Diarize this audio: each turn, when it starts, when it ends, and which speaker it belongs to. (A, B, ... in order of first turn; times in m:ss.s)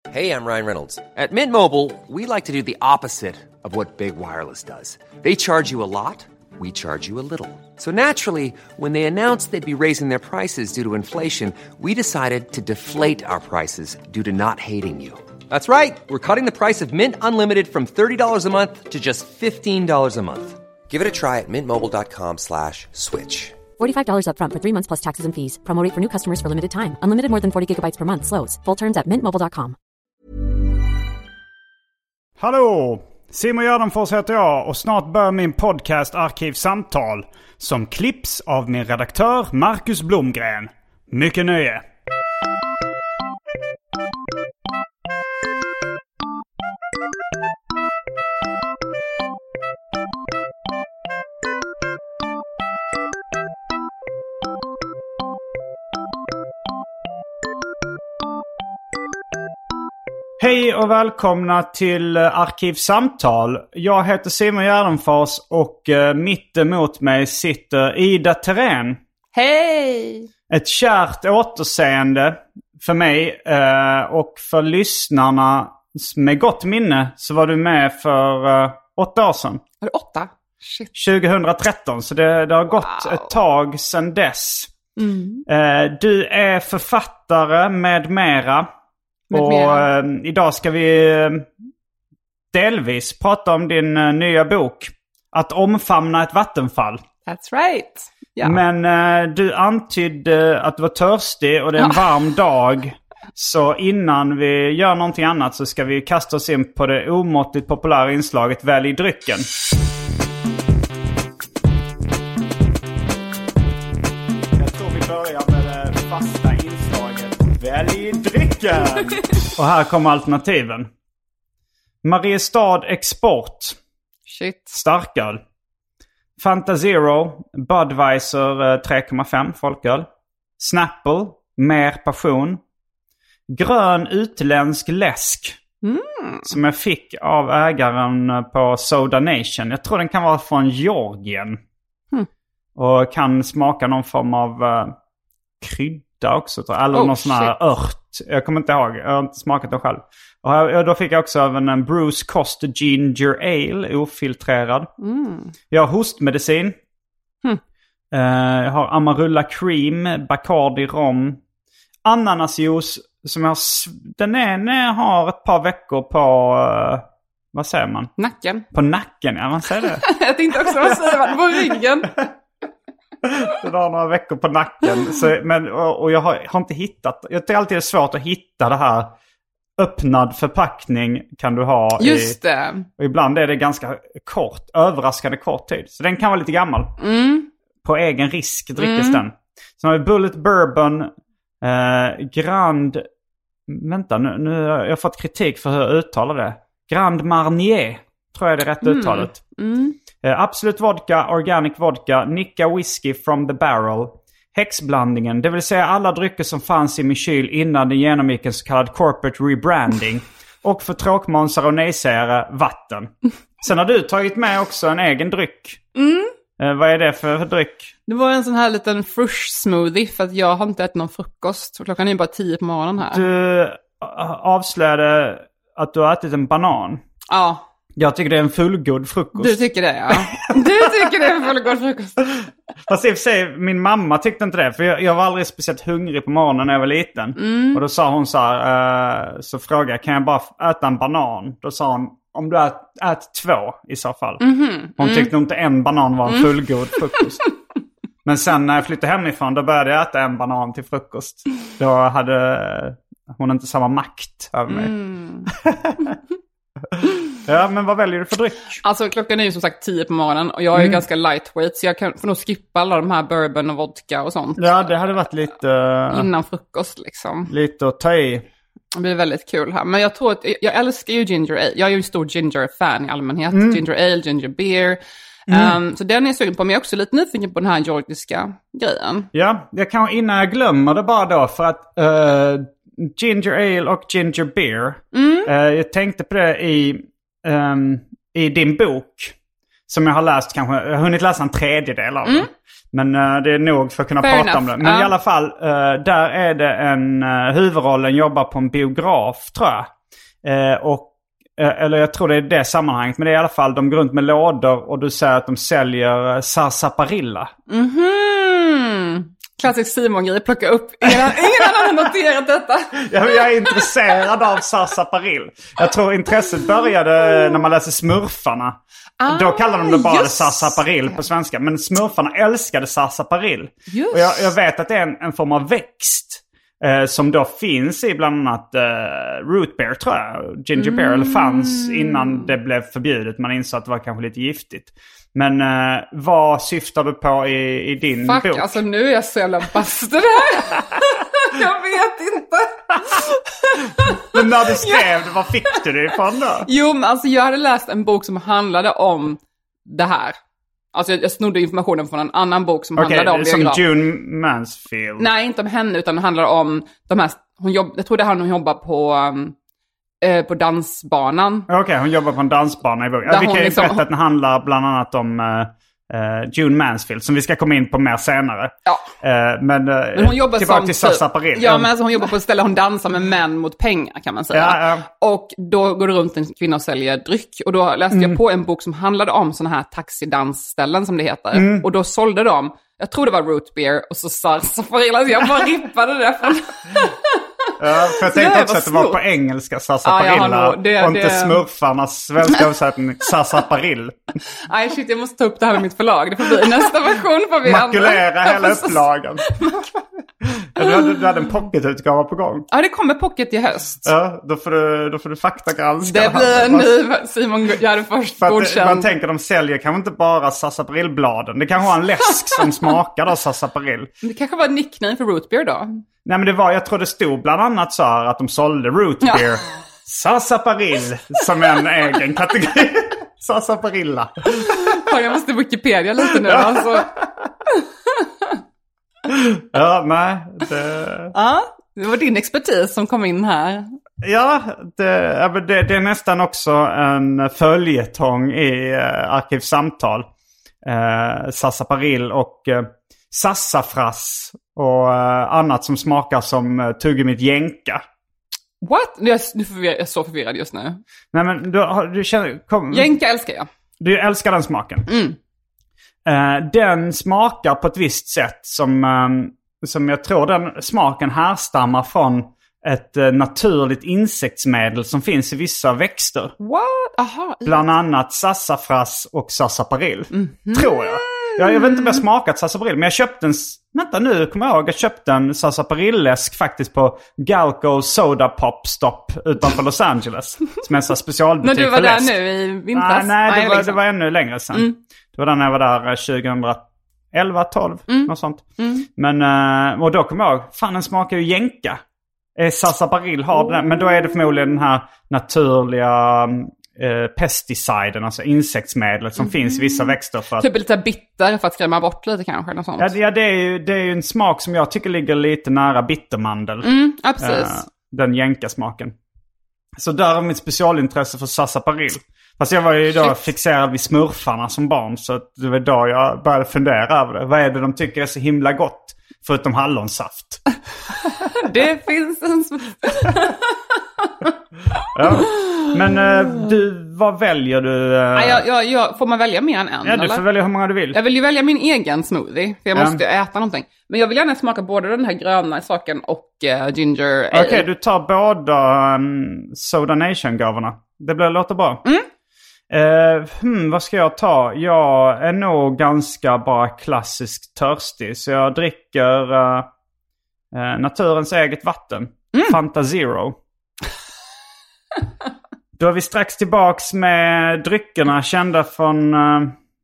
0:00.1-0:23.6 A
0:23.8-0:29.8 B
0:32.4-0:41.8 C
1:00.4-1:09.0 C
1:09.3-1:10.3 D
1:10.5-1:19.6 C
1:19.8-1:20.9 D
1:21.0-1:24.7 C
1:22.8-1:23.3 D
1:25.0-1:25.5 D
1:25.5-1:28.7 C
1:29.3-1:29.9 D
1:29.3-1:31.5 C
1:32.5-1:37.0 C
1:37.3-1:38.6 D
1:38.4-1:49.5 C
1:54.6-2:00.9 C
2:02.0-2:03.8 C
2:04.3-2:04.8 D
2:04.7-2:05.4 C
2:06.4-2:10.1 C
2:10.6-2:12.6 C
2:13.5-2:15.6 C
2:15.8-2:16.5 D
2:16.5-2:21.6 C
2:22.8-2:25.0 C
2:25.6-2:34.9 C
2:26.9-2:27.5 D
2:35.0-2:35.5 D
2:35.7-2:36.8 C
2:38.1-2:41.4 C
2:42.0-2:48.1 C
2:48.2-2:48.7 D
2:48.7-2:52.3 C
2:50.0-2:52.1 D
2:53.2-2:59.1 C
2:59.8-3:02.4 C
3:02.0-3:02.9 D
3:02.9-3:07.0 C
3:07.0-3:07.5 D
3:07.8-3:13.1 C
3:08.8-3:09.2 D
3:13.7-3:19.4 C
3:18.8-3:20.0 D
3:20.2-3:35.9 C
3:36.0-3:36.3 D
3:36.6-3:37.9 C
3:38.1-3:43.2 D
3:43.1-3:47.0 C
3:47.3-3:47.6 D
3:48.0-3:51.3 C
3:49.4-3:52.2 D
3:52.3-4:04.4 C
3:57.4-3:57.8 D
4:04.4-4:05.3 D
4:05.0-4:07.4 C
4:08.2-4:14.9 C
4:14.7-4:15.5 D
4:15.5-4:16.2 C
4:17.4-4:18.8 C
4:18.8-4:24.7 D
4:20.7-4:21.0 C
4:24.6-4:26.3 C
4:26.1-4:27.5 D
4:27.5-4:28.4 C
4:29.0-4:39.3 D
4:33.5-4:33.8 C
4:35.5-4:35.7 C
4:39.3-4:49.4 C
4:45.1-4:45.5 D
4:49.9-4:59.9 C
4:54.2-4:55.1 D
5:00.4-5:07.5 C
5:07.7-5:13.1 D
5:11.0-5:12.1 C
5:13.0-5:38.8 C
5:13.6-5:13.9 D
5:19.2-5:21.2 D
5:23.9-5:24.5 D
5:30.8-5:32.5 D
5:38.2-5:45.1 D
5:44.0-5:46.7 C
5:46.7-5:50.4 D
5:50.9-5:53.8 D
5:53.0-5:55.3 C
5:55.2-5:59.6 D
6:00.2-6:01.7 D
6:01.7-6:11.9 C
6:03.3-6:04.0 D
6:10.1-6:29.2 D
6:14.5-6:15.1 C
6:18.1-6:18.4 C
6:21.5-6:21.9 C
6:27.8-6:34.2 C
6:30.0-6:31.6 D
6:34.7-6:39.9 D
6:36.6-6:36.8 C
6:37.6-6:39.5 C
6:40.4-6:42.7 C
6:42.7-6:44.1 D
6:44.0-6:47.0 C
6:46.0-6:49.1 D
6:48.4-6:54.1 C
6:54.2-6:56.0 D
6:56.2-7:05.1 C
7:04.6-7:07.1 D
7:06.2-7:07.5 C
7:07.8-7:08.6 D
7:09.3-7:11.3 C
7:11.3-7:13.9 D
7:14.2-7:20.3 C
7:20.8-7:28.0 C
7:28.8-7:31.0 D
7:31.3-7:33.1 C
7:32.9-7:33.7 D
7:34.0-7:35.1 C
7:35.1-7:35.4 D
7:36.2-7:46.5 C
7:46.6-7:47.8 D
7:47.6-8:02.4 C
7:50.3-7:52.2 D
8:01.6-8:04.0 D
8:02.9-8:08.6 C
8:08.1-8:09.1 D
8:09.2-8:12.0 C
8:12.6-8:20.7 C
8:19.4-8:23.1 D
8:23.0-8:29.2 C
8:26.8-8:27.8 D
8:30.0-8:40.6 C
8:41.4-8:43.8 D
8:45.0-8:45.7 D
8:45.1-8:48.6 C
8:48.4-8:50.4 D
8:50.0-8:51.2 C
8:51.1-8:57.9 D
8:52.9-8:53.2 C
8:57.5-9:02.0 C
9:02.9-9:09.9 C
9:10.7-9:13.6 C
9:16.0-9:19.8 C